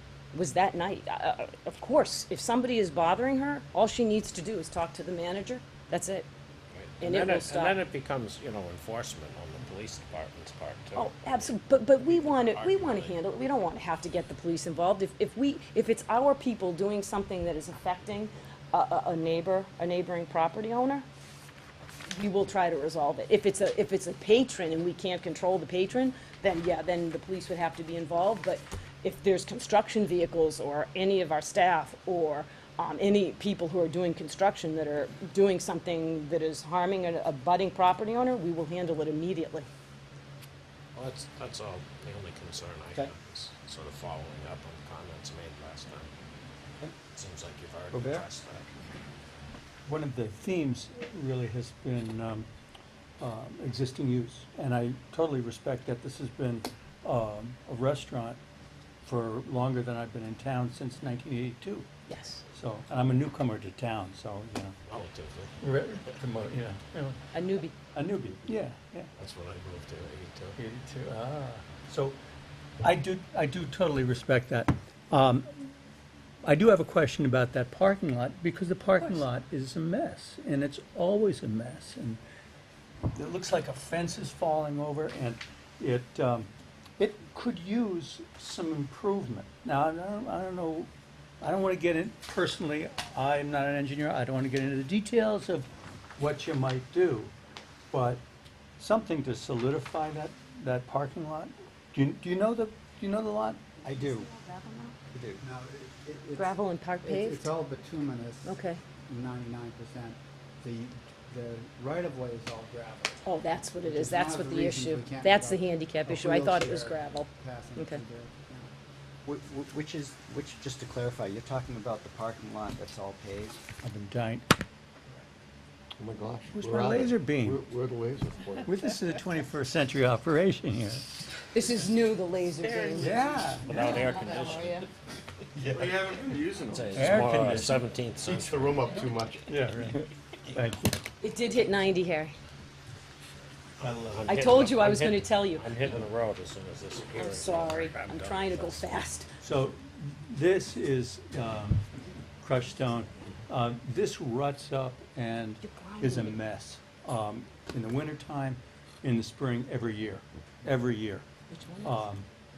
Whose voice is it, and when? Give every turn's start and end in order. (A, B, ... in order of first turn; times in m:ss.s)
0:00.3-0:06.3 A
0:06.7-0:13.3 B
0:07.0-0:07.8 A
0:10.9-0:21.0 A
0:22.1-0:39.7 A
0:40.9-0:46.1 B
0:47.1-0:48.7 B
0:47.9-0:48.3 C
0:49.8-0:52.5 D
0:53.2-0:58.4 D
0:59.0-1:01.9 D
1:02.1-1:02.4 A
1:02.5-1:04.7 D
1:04.9-1:05.5 B
1:05.6-1:07.2 D
1:07.3-1:07.7 A
1:07.9-1:09.1 D
1:09.2-1:10.6 B
1:10.6-1:12.2 D
1:12.8-1:15.7 D
1:16.4-1:22.2 D
1:23.1-1:30.9 D
1:31.4-1:37.3 D
1:37.9-1:38.2 D
1:38.8-1:43.6 D
1:43.8-1:44.3 C
1:43.8-1:44.9 A
1:45.1-1:45.4 C
1:45.4-1:53.3 E
1:46.4-1:47.5 A
1:48.4-1:48.8 A
1:53.2-1:58.0 A
1:53.8-1:58.7 E
1:59.2-2:03.6 C
2:03.8-2:04.5 D
2:06.0-2:08.8 F
2:06.5-2:07.6 D
2:08.6-2:11.2 D
2:11.5-2:14.9 A
2:12.6-2:14.9 B
2:13.0-2:13.8 D
2:15.5-2:17.0 F
2:16.6-2:18.9 B
2:16.9-2:17.8 D
2:18.2-2:19.6 F
2:19.5-2:20.9 D
2:21.2-2:22.3 A
2:23.8-2:24.8 F
2:23.8-2:28.8 B
2:24.2-2:25.9 A
2:27.1-2:29.3 A
2:29.4-2:31.8 D
2:32.4-2:41.2 D
2:35.6-2:36.4 A
2:41.5-2:42.0 A
2:41.8-2:42.3 D